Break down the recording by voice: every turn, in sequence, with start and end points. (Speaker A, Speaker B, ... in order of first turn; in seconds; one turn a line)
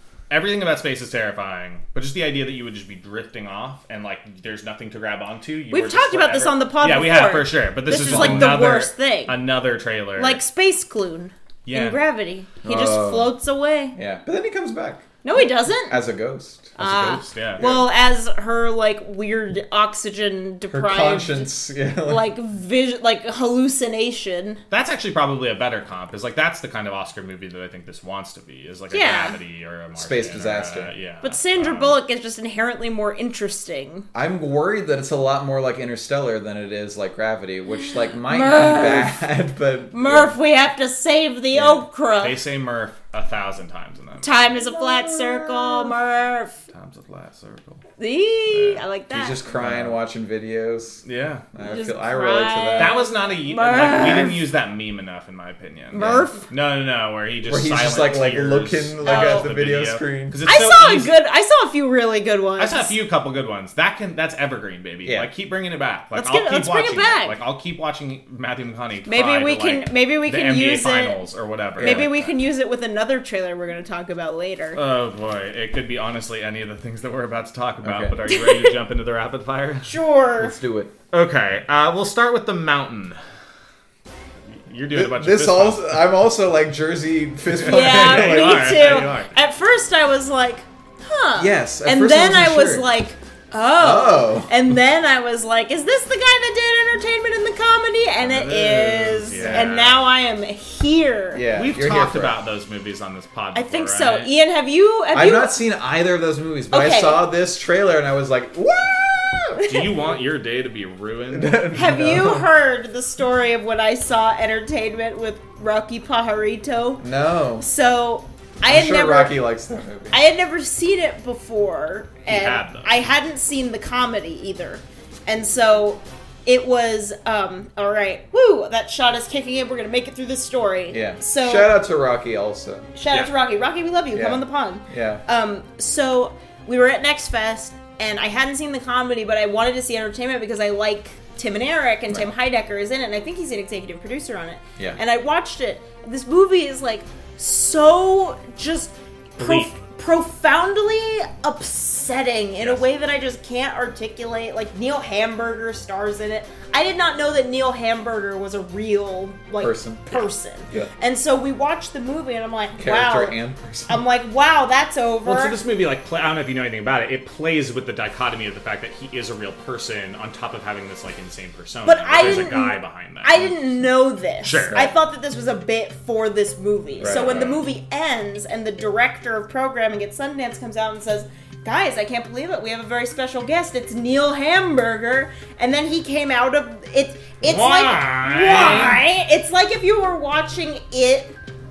Speaker A: 0.3-10.4
Speaker B: 5.7-9.4
Speaker C: 7.9-8.6
Speaker B: 10.2-13.9
Speaker A: 11.7-12.0
Speaker C: 12.6-13.3
Speaker C: 13.9-15.1
Speaker B: 15.2-16.0
Speaker C: 15.7-17.0
Speaker B: 16.8-21.5
Speaker A: 16.8-17.6
Speaker C: 17.6-17.9
Speaker C: 20.7-22.3
Speaker B: 22.0-24.6
Speaker A: 24.7-32.0
Speaker B: 28.9-29.4
Speaker C: 29.9-30.9
Speaker B: 31.2-34.1
Speaker C: 34.1-40.4
Speaker B: 38.3-39.2
Speaker B: 39.9-42.4
Speaker C: 41.5-41.8
Speaker A: 42.2-44.4
Speaker B: 44.2-46.6
Speaker C: 44.6-45.8
Speaker A: 46.7-47.8
Speaker B: 48.0-49.4
Speaker A: 48.5-48.8
Speaker C: 49.1-53.0
Speaker A: 49.6-50.0
Speaker A: 51.0-51.4
Speaker B: 51.6-54.4
Speaker A: 52.8-61.1
Speaker B: 55.9-56.5
Speaker C: 56.0-56.2
Speaker C: 57.5-60.4
Speaker B: 59.0-59.5
Speaker B: 60.4-62.9
Speaker A: 62.6-72.3
Speaker C: 65.0-65.3
Speaker B: 66.1-67.3
Speaker B: 69.1-71.2
Speaker C: 71.8-72.1
Speaker B: 71.8-74.8
Speaker A: 74.7-79.9
Speaker C: 77.8-78.2
Speaker B: 78.3-78.7
Speaker B: 79.8-80.5
Speaker C: 80.4-80.9
Speaker A: 81.1-83.2
Speaker A: 84.6-86.0
Speaker C: 84.9-89.0
Speaker A: 87.5-89.3
Speaker B: 87.7-101.4
Speaker C: 91.3-92.9
Speaker C: 93.8-94.5
Speaker A: 98.2-100.0
Speaker C: 99.3-99.8
Speaker C: 101.3-102.4
Speaker A: 101.5-104.3
Speaker B: 103.5-105.6
Speaker C: 105.1-109.6
Speaker B: 106.7-107.2
Speaker B: 109.6-109.9
Speaker A: 109.7-111.7
Speaker C: 111.3-112.5
Speaker B: 111.7-117.0
Speaker C: 117.0-117.7
Speaker B: 117.6-119.4
Speaker C: 118.6-120.2
Speaker B: 120.1-131.7
Speaker A: 122.2-122.9
Speaker C: 130.9-132.9
Speaker B: 132.9-165.6
Speaker C: 134.1-135.2
Speaker A: 149.4-149.7
Speaker C: 159.6-160.9
Speaker C: 162.8-164.0
Speaker A: 165.2-173.8
Speaker B: 171.8-191.3
Speaker A: 174.4-174.8
Speaker C: 177.0-177.6
Speaker A: 177.0-177.4
Speaker A: 187.4-189.0